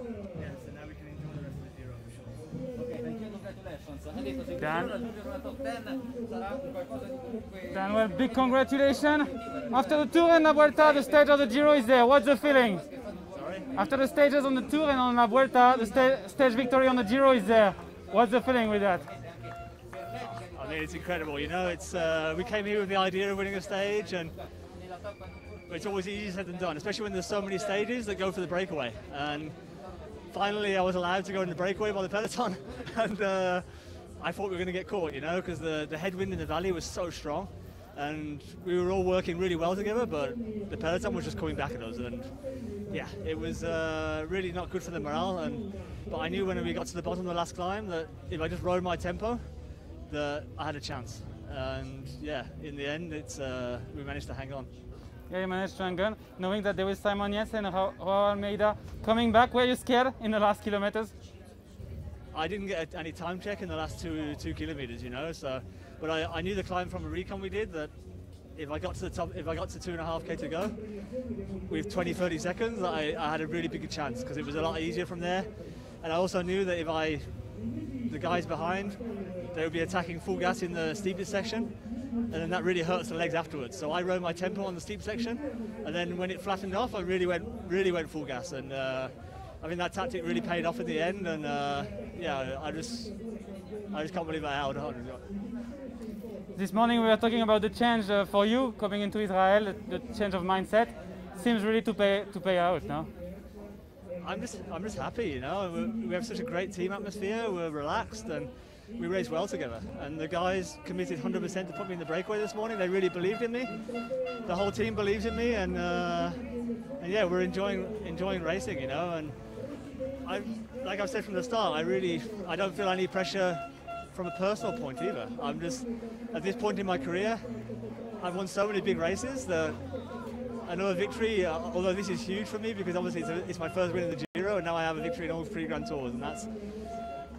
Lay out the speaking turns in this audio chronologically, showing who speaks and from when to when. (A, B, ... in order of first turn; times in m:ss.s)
0:00.3-0:02.5 A
0:02.8-0:07.0 B
0:04.6-0:04.9 C
0:07.7-0:12.8 C
0:13.3-0:13.9 A
0:13.7-0:19.1 C
0:20.2-0:24.4 A
0:25.7-0:29.6 A
0:30.3-0:49.5 A
0:50.0-0:54.7 A
0:55.3-1:01.1 C
1:02.3-1:07.9 A
1:08.5-1:33.4 A
1:33.9-1:35.2 A
1:36.5-1:43.1 C
1:44.2-2:17.1 A